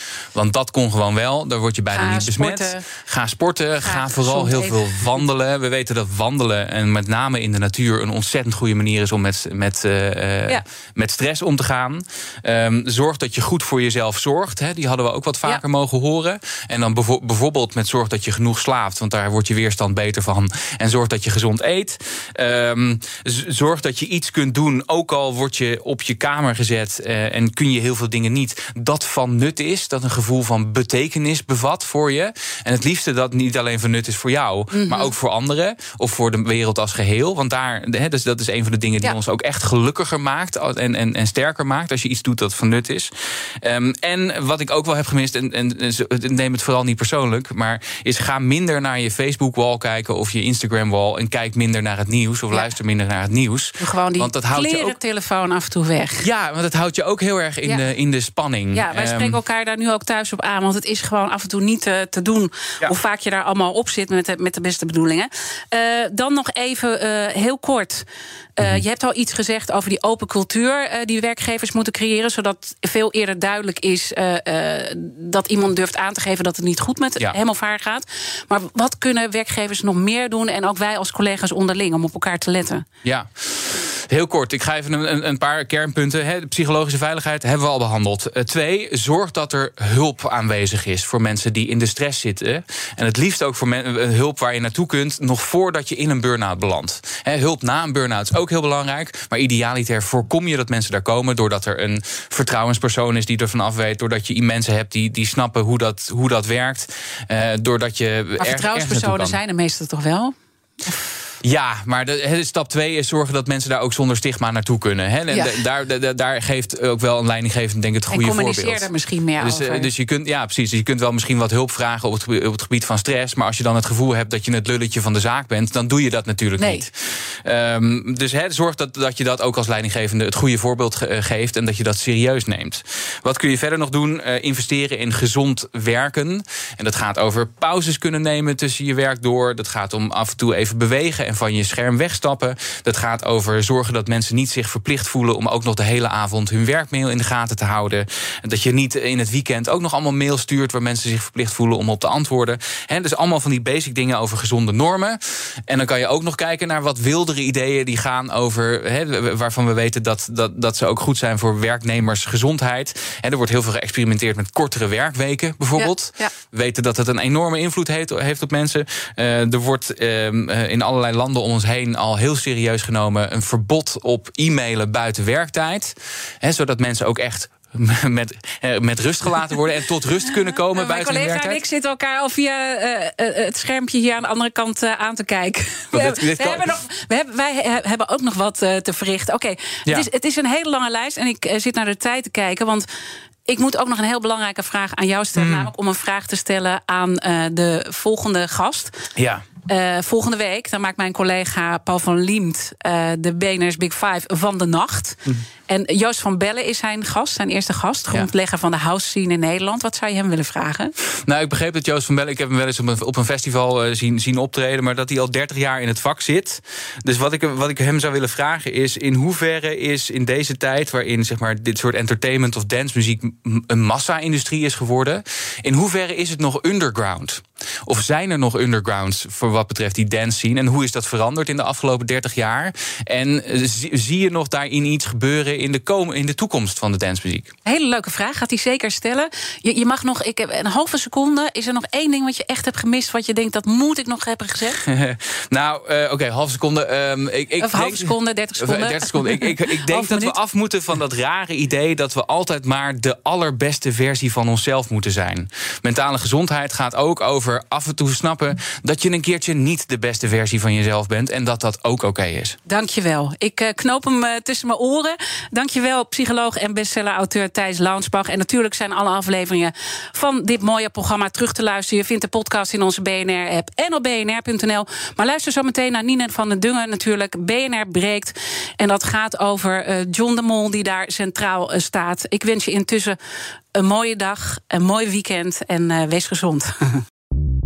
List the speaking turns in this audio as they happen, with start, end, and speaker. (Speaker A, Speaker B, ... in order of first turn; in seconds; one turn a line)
Speaker A: 0.3-55.0
Speaker B: 1.9-2.9
Speaker B: 3.8-5.2
Speaker B: 34.7-35.1
Speaker B: 53.8-56.2
Speaker A: 56.2-59.4
Speaker B: 58.7-68.0
Speaker B: 68.6-82.8
Speaker A: 83.0-109.4
Speaker B: 108.4-110.3
Speaker A: 111.4-181.6
Speaker B: 115.3-115.6
Speaker B: 118.1-119.9
Speaker B: 126.6-126.8
Speaker B: 165.8-166.3
Speaker B: 180.7-192.9
Speaker A: 185.9-186.6
Speaker B: 193.5-199.0
Speaker A: 195.3-195.7
Speaker A: 199.2-199.4
Speaker B: 199.7-210.9
Speaker A: 211.0-237.5
Speaker B: 237.6-244.8
Speaker A: 244.8-262.6
Speaker B: 247.6-250.3
Speaker B: 262.7-283.2
Speaker B: 283.7-287.0